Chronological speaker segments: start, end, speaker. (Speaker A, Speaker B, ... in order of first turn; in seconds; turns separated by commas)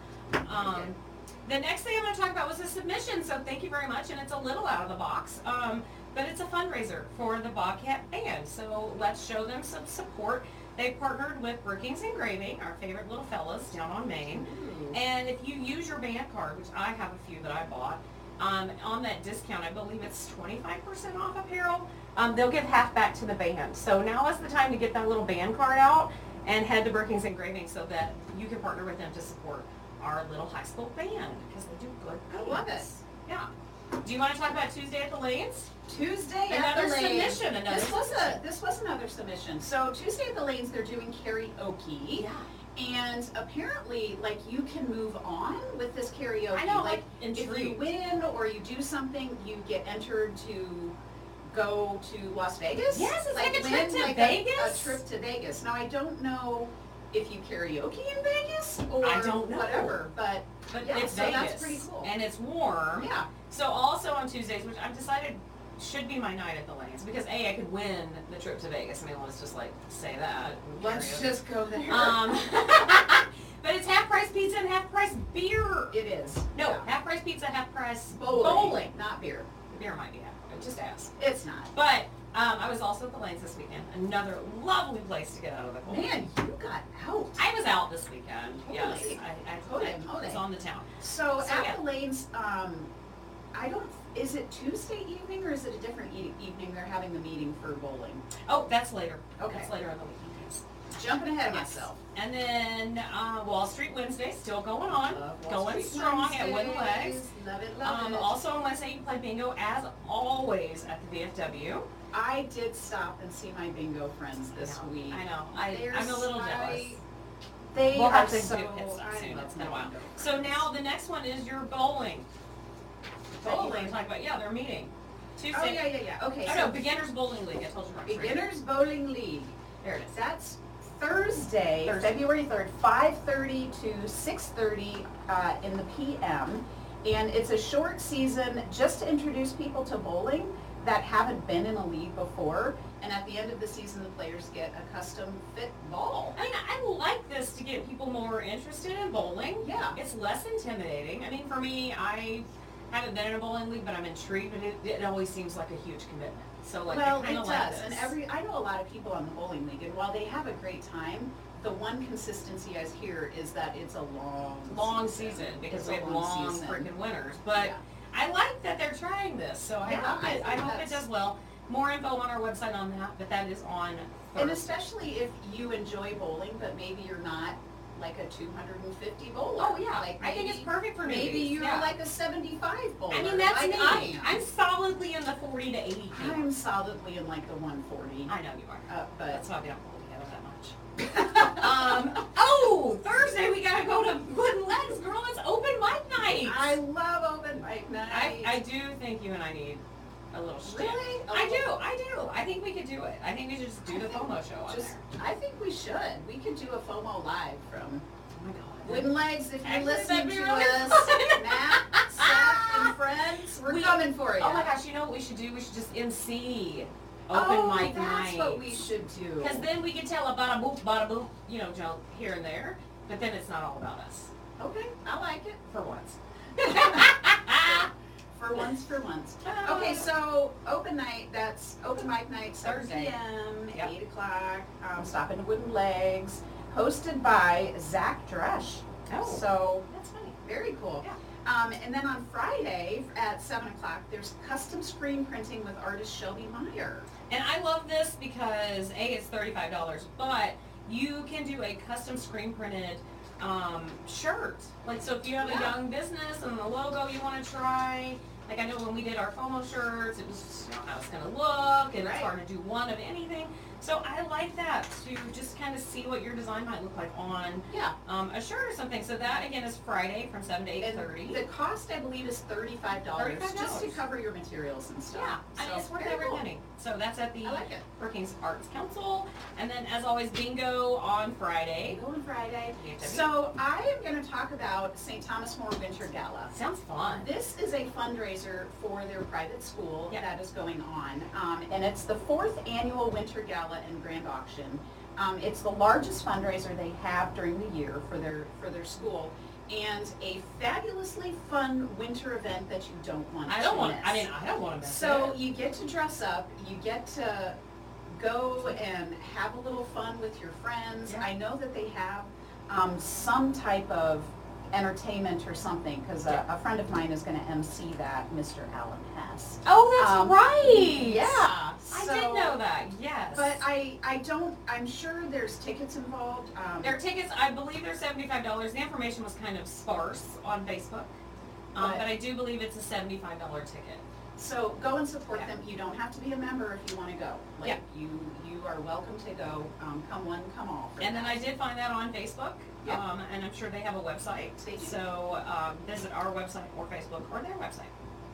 Speaker A: 0.5-0.9, Speaker B: 0.5-33.5, Speaker A: 14.3-15.0, Speaker A: 32.3-32.9, Speaker B: 34.0-35.7, Speaker A: 35.9-51.0, Speaker B: 36.5-38.4, Speaker B: 42.1-42.5, Speaker B: 46.5-47.9, Speaker A: 51.5-62.1, Speaker B: 52.9-55.0, Speaker B: 59.0-60.0, Speaker B: 60.7-71.4, Speaker A: 63.0-63.3, Speaker A: 70.8-72.4, Speaker B: 71.9-75.9, Speaker A: 75.9-76.9, Speaker B: 76.5-79.0, Speaker A: 78.1-79.5, Speaker B: 79.7-81.1, Speaker A: 81.2-81.7, Speaker B: 81.7-86.2, Speaker A: 85.9-87.5, Speaker B: 87.4-91.8, Speaker A: 88.7-90.4, Speaker A: 91.0-92.9, Speaker A: 93.5-98.2, Speaker B: 98.5-100.6, Speaker A: 99.4-99.7, Speaker A: 100.9-102.0, Speaker B: 101.4-107.2, Speaker A: 104.9-108.3, Speaker B: 107.8-111.9, Speaker A: 112.1-117.0, Speaker B: 114.5-117.0, Speaker A: 117.7-120.7, Speaker B: 117.9-122.3, Speaker B: 123.4-125.9, Speaker A: 123.4-124.0, Speaker A: 125.5-127.0, Speaker B: 126.5-128.5, Speaker A: 128.1-129.5, Speaker B: 129.8-130.2, Speaker A: 130.1-146.4, Speaker B: 131.8-132.2, Speaker B: 146.4-158.2, Speaker A: 149.6-150.0, Speaker A: 156.9-166.9, Speaker B: 164.7-174.8, Speaker A: 167.5-167.8, Speaker A: 169.8-171.0, Speaker A: 174.4-184.4, Speaker B: 179.6-181.9, Speaker B: 183.1-186.5, Speaker A: 186.1-188.3, Speaker B: 188.3-196.8, Speaker A: 188.9-189.4, Speaker A: 191.1-192.0, Speaker A: 196.2-198.6, Speaker B: 198.1-205.0, Speaker A: 200.7-201.8, Speaker A: 203.9-208.1, Speaker B: 208.3-212.9, Speaker A: 208.8-214.7, Speaker B: 213.6-218.9, Speaker A: 217.3-219.7, Speaker B: 219.4-224.3, Speaker A: 224.6-225.6, Speaker B: 225.7-227.9, Speaker A: 226.7-227.7, Speaker A: 228.4-239.8, Speaker B: 229.4-230.1, Speaker B: 232.6-233.9, Speaker B: 239.1-240.4, Speaker A: 240.4-247.1, Speaker B: 247.3-271.4, Speaker A: 255.4-255.8, Speaker A: 262.0-262.3, Speaker A: 267.7-267.9, Speaker A: 270.8-276.4, Speaker B: 273.2-274.0, Speaker B: 275.1-282.0, Speaker A: 277.4-277.8, Speaker A: 281.8-286.6, Speaker B: 282.7-283.3, Speaker B: 286.5-287.3, Speaker A: 287.1-304.3, Speaker B: 303.5-305.4, Speaker A: 304.8-307.6, Speaker A: 308.1-322.6, Speaker B: 319.6-323.6, Speaker A: 323.3-327.0, Speaker B: 326.8-331.1, Speaker B: 331.7-334.0, Speaker A: 331.8-332.1, Speaker A: 334.4-341.4, Speaker B: 341.0-347.9, Speaker A: 344.6-345.0